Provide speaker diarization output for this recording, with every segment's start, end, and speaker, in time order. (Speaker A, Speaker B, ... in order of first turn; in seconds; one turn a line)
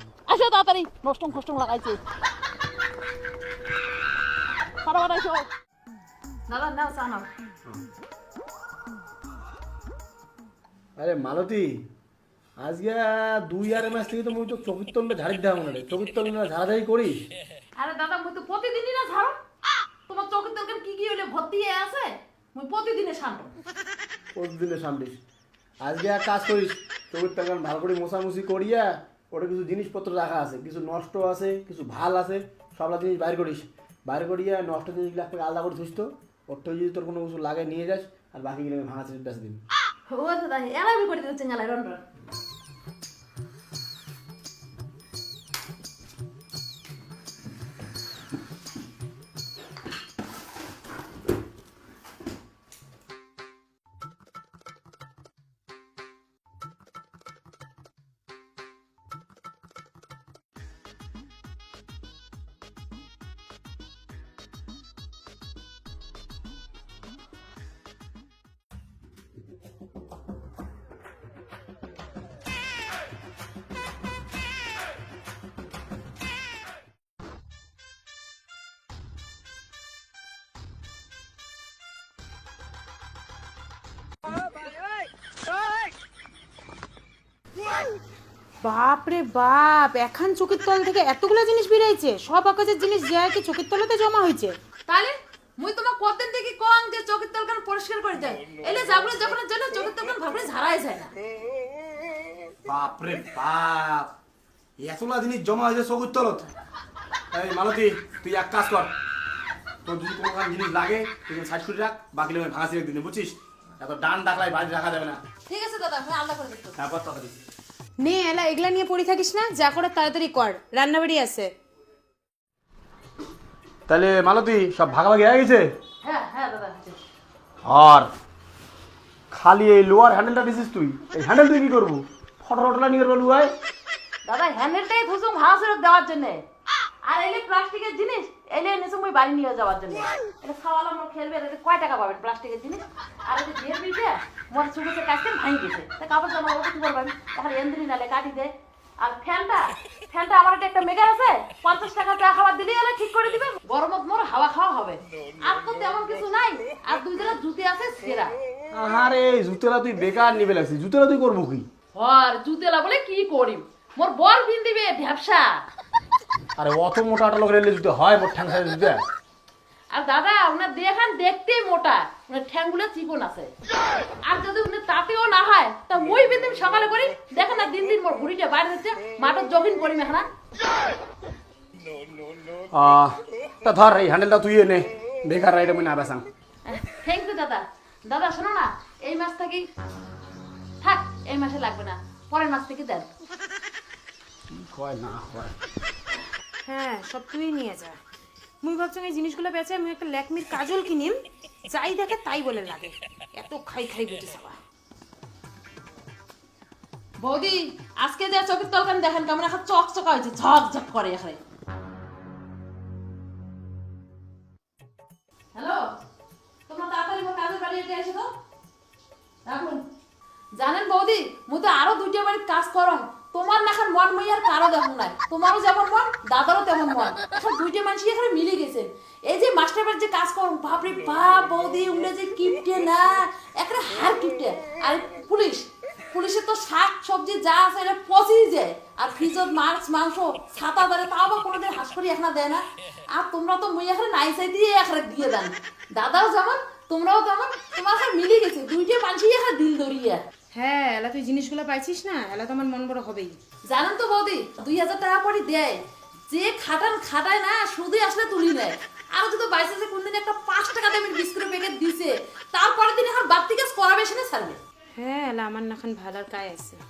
Speaker A: 0.3-2.0
Speaker A: 4.8-5.5
Speaker A: 6.5-7.3
Speaker B: 11.0-11.8
Speaker B: 12.6-17.2
Speaker A: 17.8-19.4
Speaker A: 20.1-23.5
Speaker B: 24.4-25.2
Speaker B: 25.8-39.6
Speaker A: 40.1-42.0
Speaker C: 88.6-94.6
Speaker A: 94.9-101.1
Speaker B: 102.6-104.1
Speaker B: 104.8-106.5
Speaker B: 107.3-108.9
Speaker B: 109.8-115.2
Speaker A: 115.5-116.8
Speaker B: 116.8-117.4
Speaker C: 118.0-121.5
Speaker B: 123.9-125.7
Speaker A: 126.0-127.0
Speaker B: 127.6-128.1
Speaker B: 129.3-133.5
Speaker A: 134.3-136.4
Speaker A: 137.0-158.4
Speaker B: 158.7-161.7
Speaker A: 161.9-165.6
Speaker B: 166.6-169.0
Speaker A: 169.9-173.5
Speaker A: 174.2-180.3
Speaker B: 182.7-186.3
Speaker A: 186.7-189.7
Speaker A: 190.8-193.1
Speaker B: 194.5-195.5
Speaker C: 196.7-198.0
Speaker C: 198.6-204.6
Speaker A: 207.2-211.4
Speaker A: 215.6-215.9
Speaker A: 216.7-218.3
Speaker A: 219.4-219.9
Speaker A: 220.5-250.2
Speaker C: 250.5-253.4
Speaker A: 253.6-264.6
Speaker C: 265.0-266.8